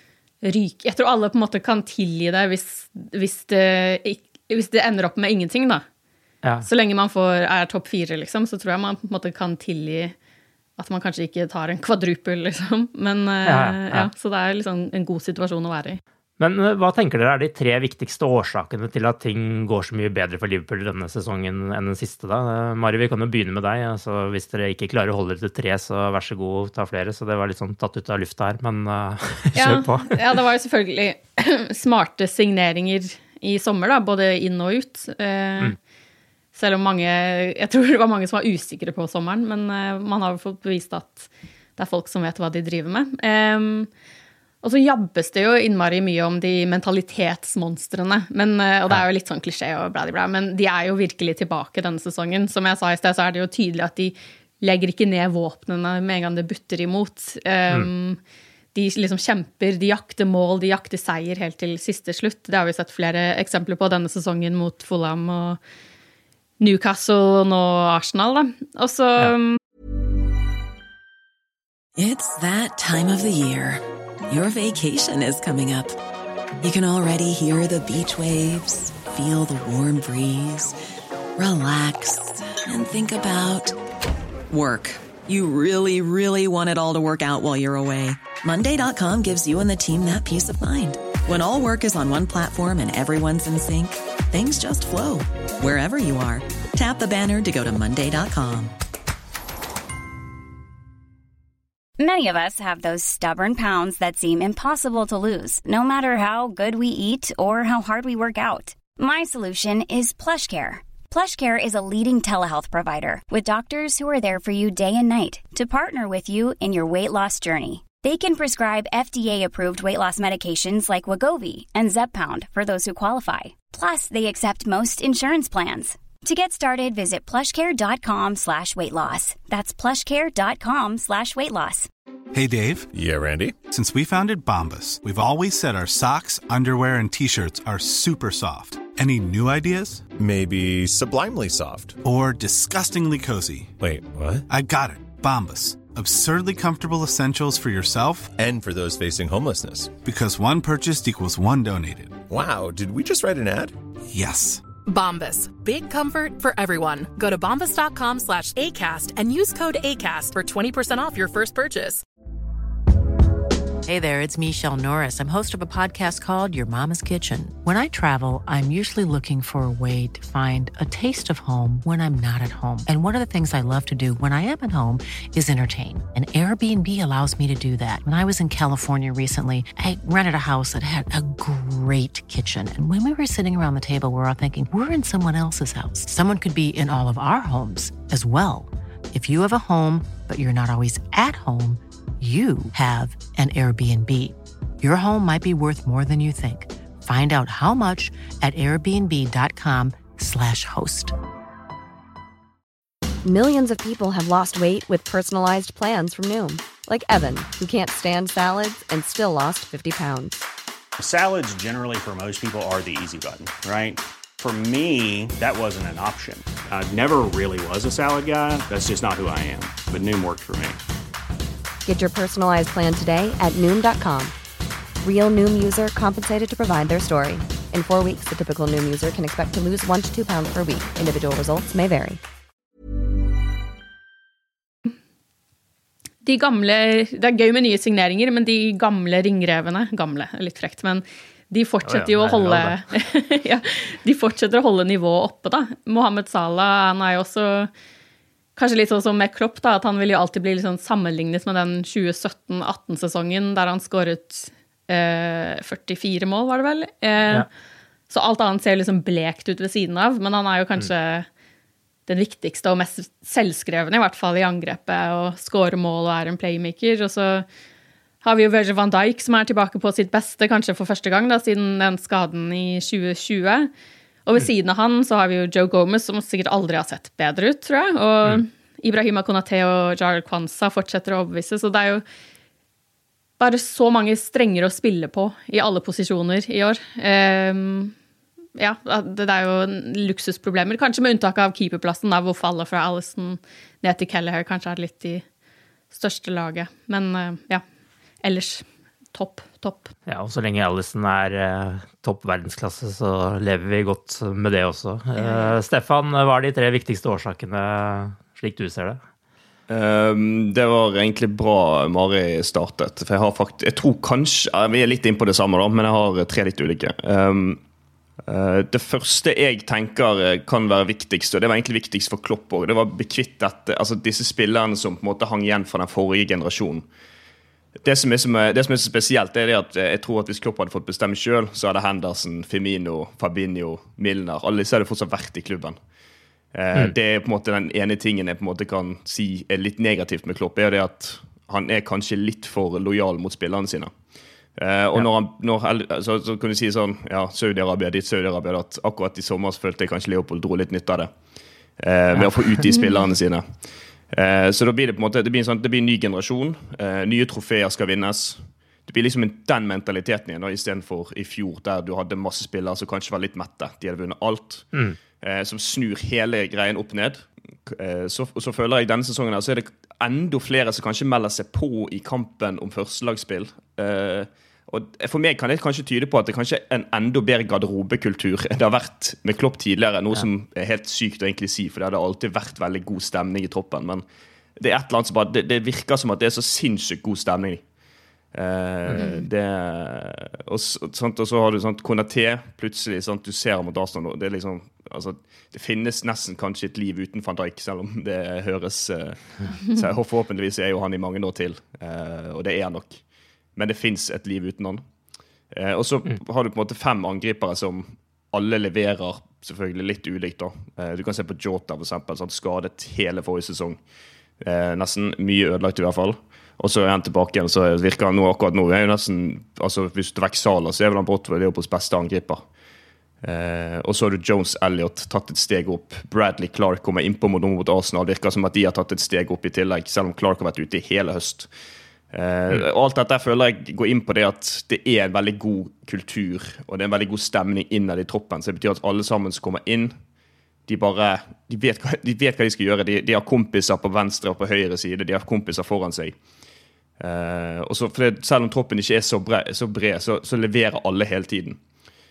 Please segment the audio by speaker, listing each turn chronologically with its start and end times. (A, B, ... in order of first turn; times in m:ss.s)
0:00.4-0:05.8 A
0:06.6-0:10.2 A
0:10.8-0:16.0 A
0:13.4-0:14.1 B
0:16.4-0:30.2 B
0:29.6-0:35.8 A
0:36.6-0:43.9 A
0:44.6-0:58.2 A
0:58.7-1:05.6 A
1:06.6-1:09.6 A
1:12.0-1:16.0 C
1:16.6-1:20.8 C
1:21.4-1:23.8 C
1:24.5-1:38.7 C
1:42.0-2:11.9 D
2:12.3-2:12.9 E
2:12.9-2:13.6 F
2:13.6-2:20.1 E
2:20.2-2:22.0 F
2:22.0-2:23.8 E
2:23.8-2:24.5 F
2:24.5-2:28.3 E
2:28.3-2:30.0 F
2:30.0-2:32.2 E
2:32.3-2:33.8 F
2:34.1-2:34.6 E
2:34.8-2:42.0 G
2:43.8-3:21.2 H
3:23.2-3:30.4 I
3:31.0-3:40.8 J
3:41.9-3:44.4 I
3:45.0-3:52.2 I
3:56.2-4:07.7 A
4:01.8-4:02.8 B
4:08.6-4:17.5 A
4:18.1-4:21.3 A
4:22.1-4:27.5 A
4:28.2-4:33.7 A
4:34.3-4:42.0 A
4:43.4-4:47.9 A
4:48.6-4:55.2 A
4:55.9-4:57.6 A
4:58.2-4:59.9 A
5:00.1-5:09.0 B
5:05.2-5:05.6 A
5:09.7-5:17.6 K
5:18.3-5:26.9 K
5:27.8-5:35.8 K
5:36.5-5:43.9 K
5:44.6-5:51.1 K
5:51.8-5:53.4 K
5:54.1-6:24.0 K
6:24.6-6:27.6 K
6:28.3-6:43.0 K
6:29.0-6:29.2 A
6:43.6-6:44.8 K
6:45.5-6:53.8 K
6:54.4-7:02.4 K
7:03.2-7:11.5 K
7:12.1-7:20.0 K
7:20.7-7:26.2 K
7:27.0-7:31.6 K